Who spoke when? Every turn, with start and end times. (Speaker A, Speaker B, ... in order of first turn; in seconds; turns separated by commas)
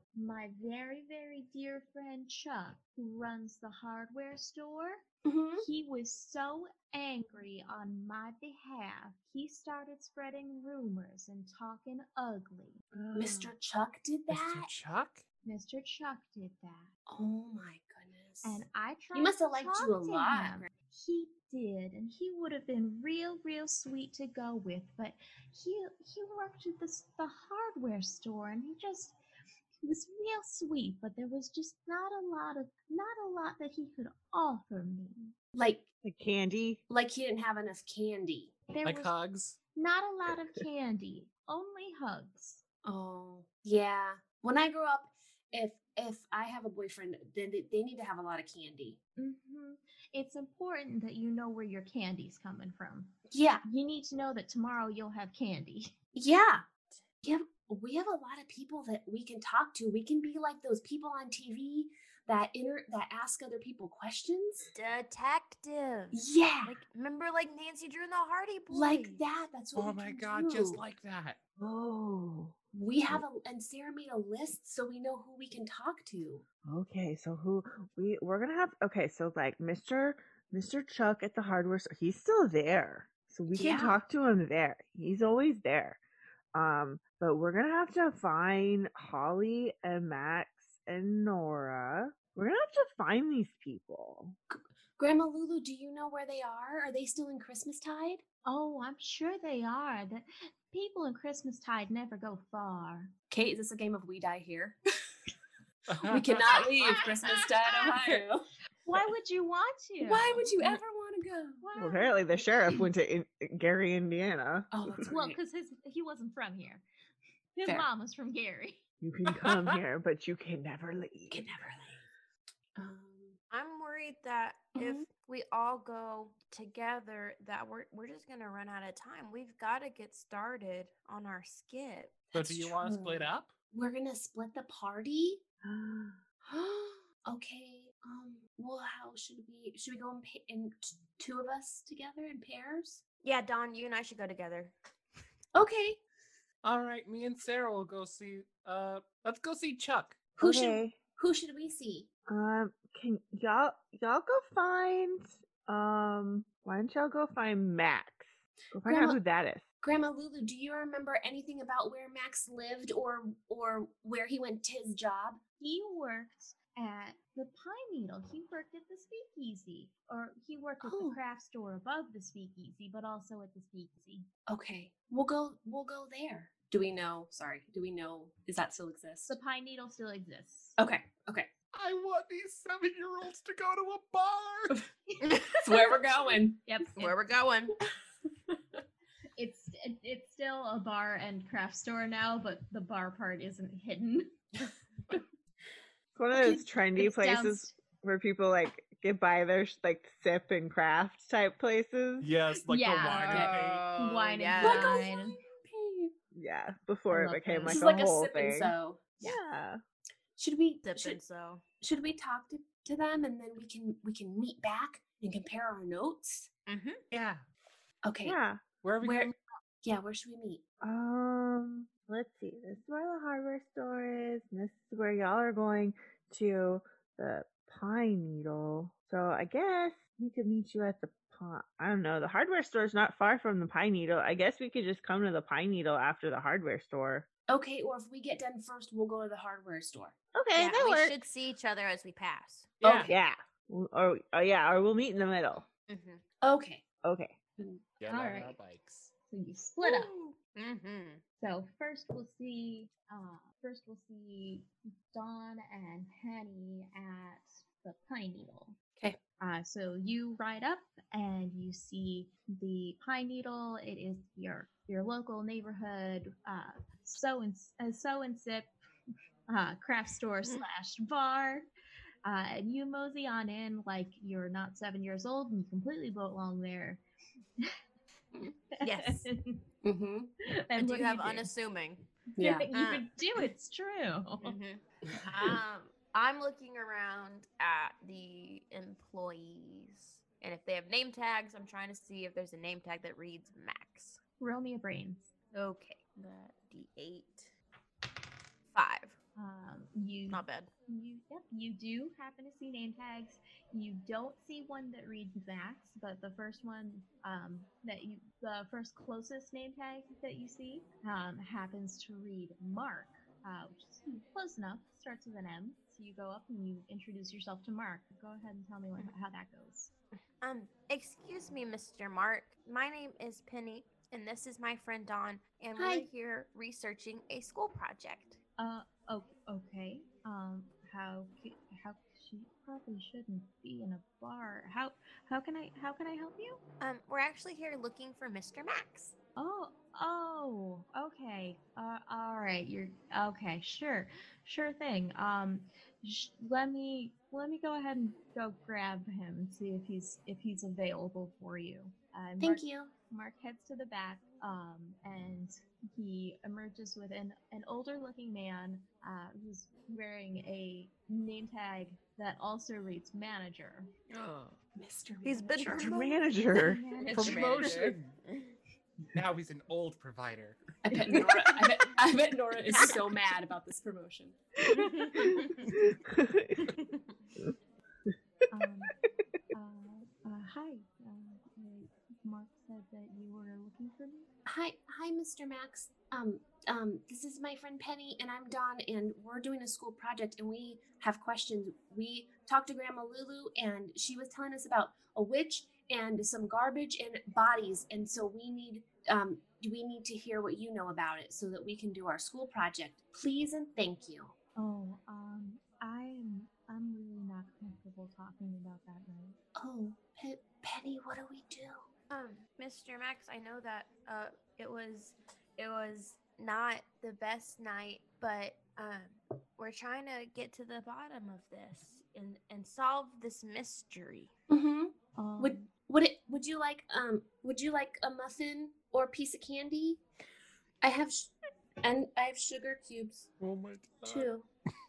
Speaker A: 0.1-5.0, Speaker B: 5.2-5.7, Speaker A: 5.6-12.8, Speaker C: 12.9-13.5, Speaker B: 13.1-14.7, Speaker D: 14.3-15.2, Speaker A: 15.4-16.9, Speaker B: 17.1-20.7, Speaker A: 18.4-29.2, Speaker A: 29.8-35.3, Speaker B: 35.5-35.9, Speaker C: 36.0-36.8, Speaker B: 36.9-38.5, Speaker A: 38.7-39.2, Speaker D: 38.8-39.6, Speaker A: 39.8-42.6, Speaker B: 42.8-49.0, Speaker A: 49.2-53.1, Speaker B: 53.3-53.6, Speaker A: 53.6-55.9, Speaker B: 56.1-64.7, Speaker E: 64.7-69.2, Speaker B: 66.1-66.8, Speaker B: 68.7-70.8, Speaker D: 69.8-71.4, Speaker C: 71.6-72.5, Speaker B: 72.7-76.5, Speaker C: 76.7-86.0, Speaker B: 83.5-84.0, Speaker C: 86.5-94.4, Speaker B: 94.5-98.2, Speaker A: 98.5-103.1, Speaker B: 103.3-104.8, Speaker D: 105.9-106.6, Speaker B: 106.0-108.5, Speaker A: 108.8-110.6, Speaker B: 110.0-111.7, Speaker A: 111.6-112.4, Speaker C: 111.8-114.8, Speaker B: 114.7-115.4, Speaker A: 115.0-116.8, Speaker A: 117.6-118.8, Speaker C: 119.0-121.5, Speaker D: 119.4-119.7, Speaker B: 121.3-122.0, Speaker B: 122.8-123.4, Speaker E: 123.5-132.2, Speaker B: 124.8-125.1, Speaker B: 132.3-135.4, Speaker D: 132.3-133.5, Speaker C: 135.6-136.2, Speaker B: 136.4-143.0, Speaker E: 143.2-144.7, Speaker B: 145.6-146.0, Speaker D: 146.6-150.3, Speaker B: 150.4-152.1, Speaker C: 150.4-151.0, Speaker C: 152.3-159.6, Speaker B: 158.9-159.2, Speaker B: 159.8-165.4, Speaker A: 165.6-174.3, Speaker B: 170.8-171.2, Speaker B: 174.5-179.4, Speaker A: 179.3-180.8, Speaker B: 180.8-181.5, Speaker D: 181.7-184.8, Speaker A: 185.1-187.2, Speaker E: 185.2-185.6, Speaker B: 185.6-186.6, Speaker E: 187.0-187.8, Speaker A: 189.4-194.4, Speaker C: 196.2-202.3, Speaker A: 196.3-197.8, Speaker D: 202.2-204.3, Speaker A: 202.7-205.4, Speaker B: 203.1-203.8, Speaker E: 204.3-205.0, Speaker B: 204.6-206.1, Speaker C: 206.3-209.8, Speaker A: 207.1-208.1, Speaker B: 207.7-209.4, Speaker B: 210.4-211.2, Speaker E: 210.8-211.6, Speaker B: 211.8-216.5, Speaker E: 216.7-217.0, Speaker D: 217.1-217.4, Speaker B: 218.0-218.4, Speaker C: 218.2-218.6, Speaker D: 218.8-219.3, Speaker B: 219.0-220.6, Speaker C: 220.8-237.3, Speaker B: 237.5-240.2, Speaker C: 240.3-241.2, Speaker E: 240.6-242.8, Speaker D: 242.8-243.1, Speaker B: 242.8-243.2, Speaker C: 243.0-245.7, Speaker E: 245.9-246.2, Speaker B: 246.4-246.8, Speaker C: 247.0-247.4, Speaker B: 247.6-247.8, Speaker D: 248.0-249.1, Speaker A: 248.1-248.6, Speaker A: 249.3-250.1, Speaker E: 249.8-251.2, Speaker A: 251.4-258.8, Speaker A: 259.4-268.7, Speaker A: 269.5-271.7, Speaker A: 272.2-277.0, Speaker A: 278.7-279.6, Speaker E: 278.8-279.3, Speaker B: 279.8-280.3, Speaker A: 280.4-281.5, Speaker E: 280.8-282.1, Speaker B: 282.4-282.7, Speaker A: 282.4-284.6, Speaker E: 282.7-283.1, Speaker E: 284.4-294.2, Speaker A: 294.4-295.3, Speaker E: 295.5-297.5, Speaker E: 298.7-299.2, Speaker A: 299.4-319.9, Speaker E: 300.3-300.7, Speaker E: 320.4-328.4, Speaker B: 325.8-326.1, Speaker A: 328.6-336.6, Speaker E: 336.8-339.1, Speaker A: 339.4-363.9, Speaker B: 352.4-352.9, Speaker E: 364.1-364.6, Speaker B: 364.8-366.0, Speaker E: 365.2-366.1, Speaker C: 365.8-366.8, Speaker A: 365.9-367.5, Speaker E: 367.0-368.5, Speaker B: 367.1-367.8, Speaker D: 367.1-368.2, Speaker D: 369.1-370.6, Speaker B: 370.8-374.4, Speaker E: 374.8-375.7, Speaker C: 375.8-376.7, Speaker A: 378.5-378.9, Speaker A: 379.5-384.3, Speaker B: 384.5-404.4, Speaker A: 404.6-409.4, Speaker B: 409.6-411.9, Speaker E: 412.1-424.3, Speaker B: 424.5-430.0, Speaker A: 425.2-425.7, Speaker B: 430.8-433.3, Speaker D: 433.4-434.3, Speaker B: 434.0-434.5